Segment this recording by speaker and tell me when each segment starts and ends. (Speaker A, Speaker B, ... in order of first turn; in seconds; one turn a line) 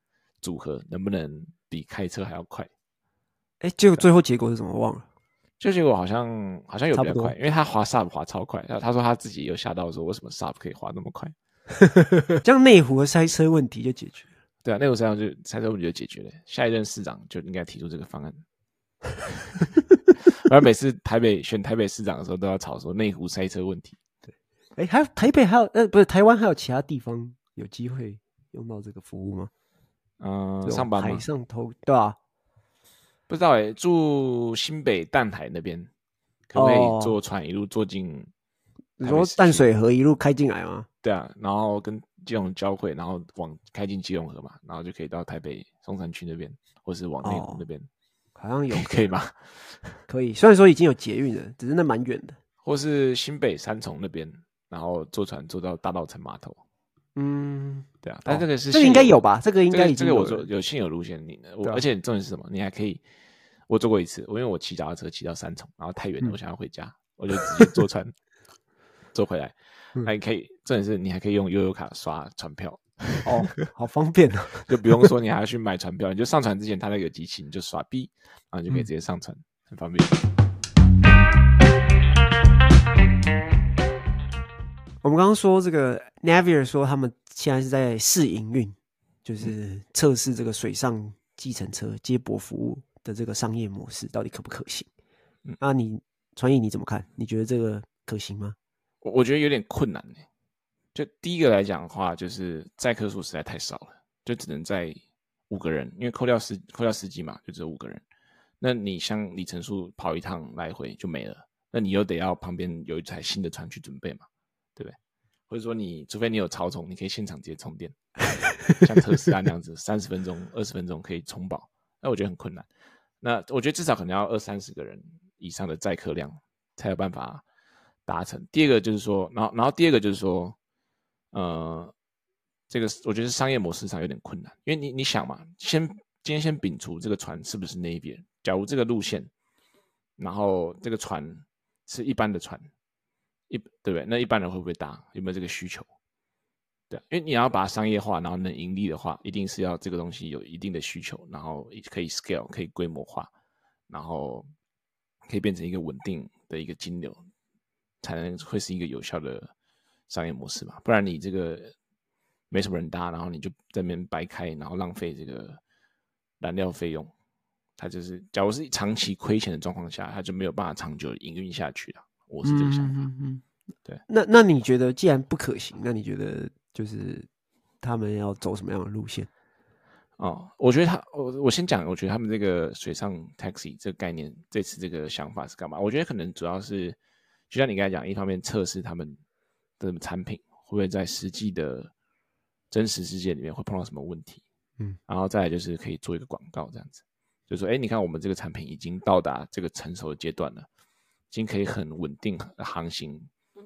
Speaker A: 0.4-2.7
Speaker B: 3.6-5.0
Speaker A: 5.6-11.3
Speaker B: 6.9-7.3
Speaker B: 11.9-14.3
Speaker A: 14.6-18.4
Speaker A: 20.3-24.0
Speaker B: 24.8-29.5
Speaker A: 30.2-31.2
Speaker B: 30.6-32.2
Speaker A: 33.3-35.9
Speaker A: 36.5-38.3
Speaker B: 36.5-37.1
Speaker B: 39.0-40.9
Speaker A: 39.0-39.6
Speaker A: 41.0-47.9
Speaker B: 47.2-47.6
Speaker B: 48.4-49.1
Speaker A: 48.7-50.0
Speaker B: 50.1-52.4
Speaker A: 52.6-56.6
Speaker B: 57.1-60.5
Speaker A: 58.0-63.0
Speaker A: 63.7-68.1
Speaker A: 69.1-73.3
Speaker B: 73.2-75.0
Speaker A: 74.7-80.2
Speaker B: 85.0-94.9
Speaker B: 95.6-98.6
Speaker A: 99.0-100.2
Speaker A: 100.9-108.0
Speaker A: 108.6-115.0
Speaker A: 115.5-118.0
Speaker A: 118.7-122.7
Speaker A: 123.2-127.4
Speaker A: 128.1-130.6
Speaker A: 131.3-131.9
Speaker A: 132.7-139.3
Speaker A: 140.2-142.7
Speaker A: 143.5-145.9
Speaker A: 146.9-153.3
Speaker A: 153.9-154.5
Speaker A: 155.3-157.2
Speaker A: 158.0-159.5
Speaker A: 160.1-161.7
Speaker A: 162.5-165.6
Speaker A: 166.4-167.1
Speaker A: 167.8-173.1
Speaker B: 172.4-173.4
Speaker B: 174.1-177.3
Speaker B: 177.8-179.3
Speaker A: 180.2-187.0
Speaker A: 187.5-189.2
Speaker A: 189.8-191.9
Speaker A: 192.7-194.4
Speaker A: 195.1-200.7
Speaker A: 201.3-203.3